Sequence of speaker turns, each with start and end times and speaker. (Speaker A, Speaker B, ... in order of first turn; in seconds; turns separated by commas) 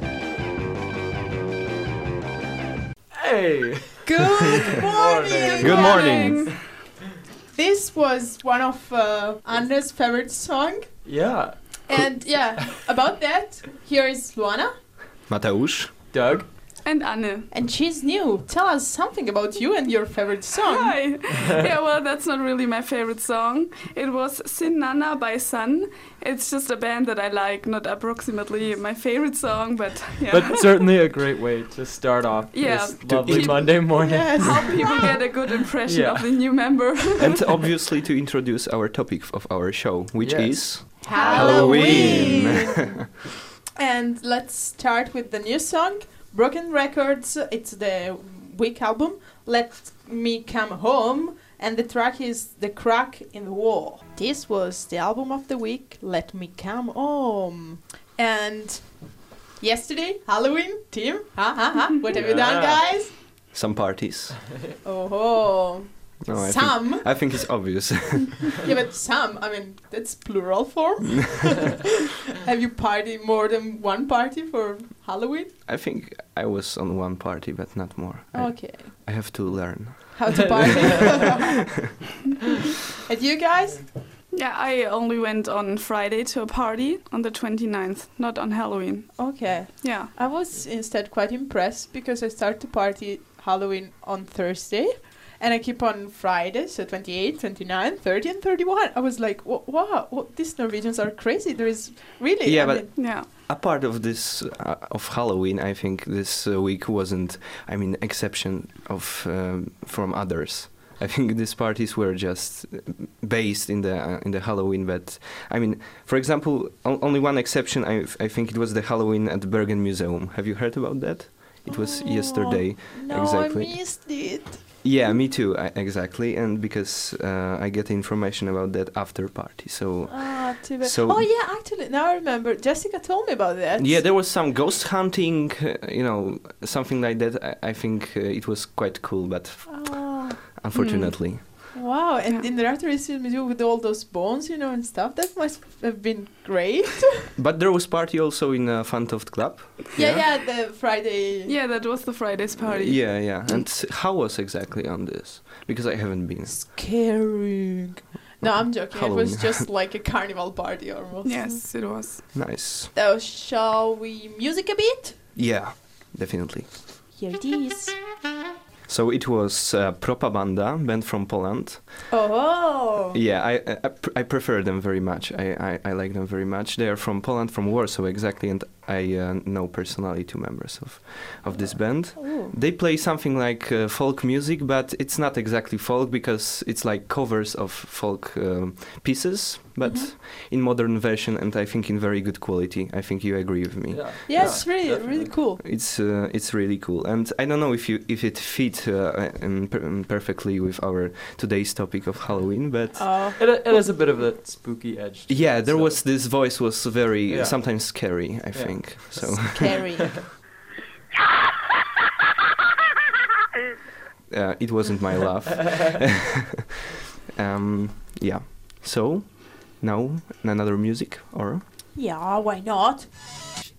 Speaker A: 3.1-6.0, Speaker B: 4.0-6.3, Speaker C: 5.4-6.5, Speaker D: 5.6-6.5, Speaker B: 7.5-10.9, Speaker A: 11.1-11.6, Speaker B: 11.9-14.7, Speaker D: 15.3-15.9, Speaker A: 16.1-16.5, Speaker C: 16.9-17.5, Speaker B: 17.5-21.0, Speaker C: 20.6-30.6, Speaker A: 30.3-34.8, Speaker C: 32.5-37.4, Speaker D: 33.1-33.6, Speaker B: 33.9-35.3, Speaker A: 35.9-36.3, Speaker D: 37.2-43.0, Speaker A: 40.2-42.3, Speaker B: 41.0-43.0, Speaker C: 41.1-42.6, Speaker B: 43.8-63.1, Speaker A: 62.1-62.8, Speaker D: 63.5-64.4, Speaker B: 64.8-67.3, Speaker D: 66.2-68.6, Speaker B: 68.6-71.8, Speaker B: 72.3-75.5, Speaker D: 75.7-81.4, Speaker B: 78.3-79.1, Speaker B: 80.1-81.7, Speaker A: 80.3-81.3, Speaker B: 83.0-83.9, Speaker C: 84.3-90.1, Speaker B: 89.2-102.9, Speaker D: 102.4-123.9, Speaker C: 103.0-103.3, Speaker B: 121.7-124.7, Speaker D: 124.8-131.3, Speaker B: 130.1-134.0, Speaker D: 133.8-141.4, Speaker B: 139.7-140.6, Speaker C: 140.8-141.7, Speaker B: 141.7-147.3, Speaker D: 147.4-150.2, Speaker B: 150.0-151.6, Speaker C: 151.5-153.4, Speaker D: 152.6-156.6, Speaker B: 156.5-161.6, Speaker D: 158.4-159.7, Speaker C: 161.2-162.2, Speaker D: 162.3-162.9, Speaker B: 162.9-165.2, Speaker D: 165.4-166.7, Speaker B: 167.2-168.0, Speaker D: 168.9-172.1, Speaker B: 172.1-173.2, Speaker D: 173.1-194.9, Speaker B: 182.2-182.5, Speaker B: 189.8-190.1, Speaker A: 193.9-195.3, Speaker B: 194.3-195.6, Speaker D: 195.6-203.4, Speaker B: 202.9-204.1, Speaker A: 203.4-206.0, Speaker D: 205.3-209.8, Speaker A: 207.3-209.6, Speaker B: 209.2-210.4, Speaker D: 214.3-216.7, Speaker D: 217.3-221.6, Speaker B: 221.9-223.1